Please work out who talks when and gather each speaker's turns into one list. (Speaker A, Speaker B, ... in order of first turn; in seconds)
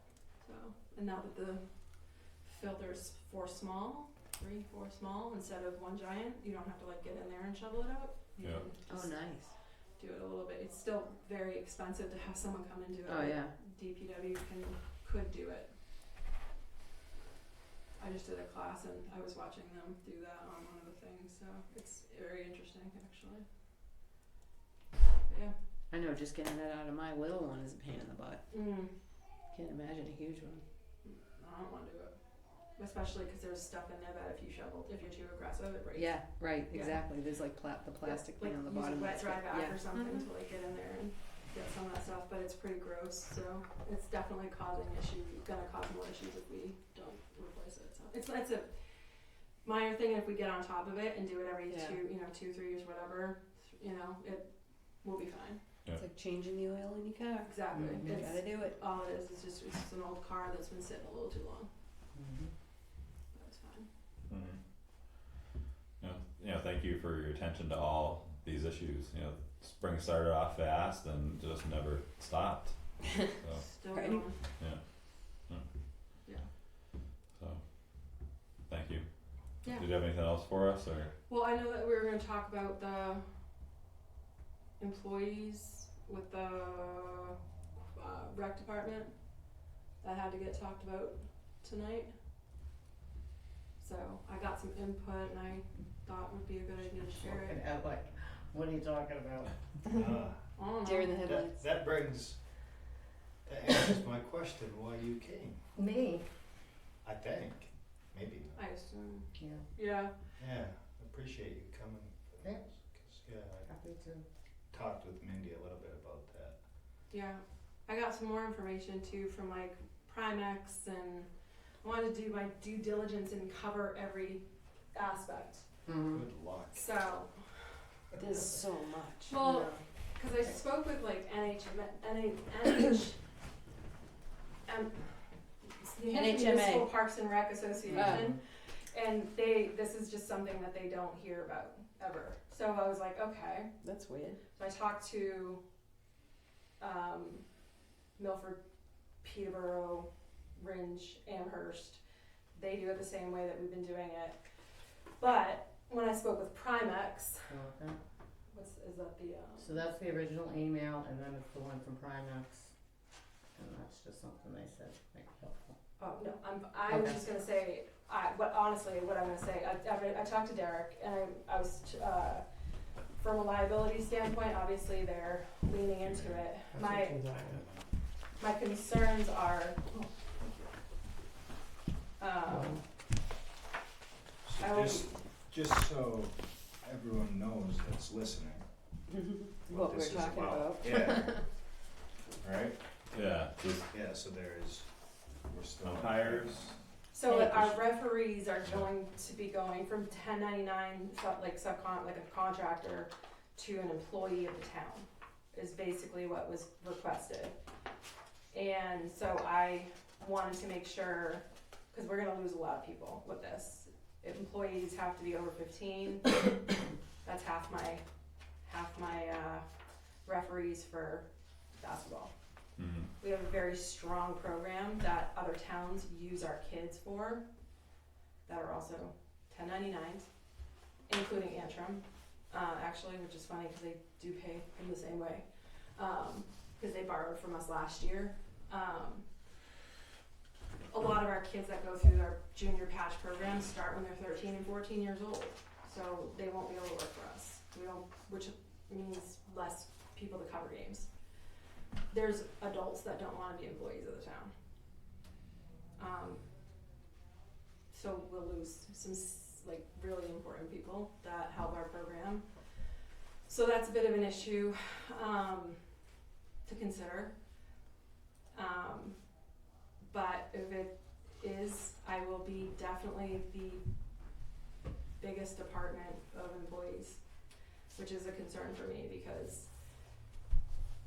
Speaker A: 0.4-1.6, 2.4-9.2, 10.0-15.7, 18.0-23.4, 25.3-25.5, 28.5-28.9, 31.0-32.1, 32.8-37.0, 38.0-48.7, 49.6-54.5, 55.0-55.6, 57.4-61.7, 63.3-63.9, 73.5-74.4, 81.3-83.2, 84.8-87.4, 87.9-89.1, 90.0-92.1, 93.8-97.6, 100.5-101.2, 108.5-110.1, 117.1-121.3, 121.8-125.7, 126.7-127.3, 129.3-133.2, 134.7-135.1, 135.8-143.7, 144.5-145.6, 146.8-147.4, 148.2-148.6, 149.2-152.0, 152.5-154.4, 155.2-157.5, 158.5-159.9, 166.0-172.4, 173.2-177.2, 178.4-179.9, 182.2-182.8, 184.6-185.1, 197.1-207.5, 208.5-216.5, 217.2-218.0, 218.6-219.6, 220.2-222.3, 223.2-227.4, 228.4-230.3, 231.1-239.3, 240.9-251.1, 252.1-254.5, 256.0-256.4, 257.9-262.5, 263.4-265.8, 266.6-267.3, 268.5-269.2, 270.1-273.8, 275.2-277.2, 277.9-279.7
Speaker B: 8.4-8.7, 64.3-64.6, 66.0-72.7, 73.3-73.7, 77.3-77.6, 78.7-79.0, 79.6-81.1, 176.0-176.4, 193.1-193.9, 195.8-196.7, 222.8-223.1
Speaker C: 8.9-9.5, 13.1-13.5, 25.9-28.4, 29.5-30.6, 35.9-40.2, 51.7-52.0, 56.0-58.7, 73.9-74.2, 100.8-101.7, 128.2-129.4, 136.0-136.9, 137.9-138.3, 143.8-144.4, 189.6-191.4, 197.3-197.5
Speaker D: 57.7-58.3, 62.1-62.5, 97.1-99.5, 105.7-106.2, 109.4-109.6, 113.6-114.2, 125.8-126.2, 137.9-138.4, 157.5-158.0, 159.6-162.7, 163.6-165.8, 166.9-167.2, 176.7-177.6, 182.5-182.8
Speaker E: 99.9-100.6, 101.2-102.4, 103.4-105.7, 107.0-108.6, 110.4-113.7, 114.7-116.6, 126.1-126.9, 184.4-188.6, 189.7-191.5, 192.4-192.8, 193.9-194.9, 195.4-196.8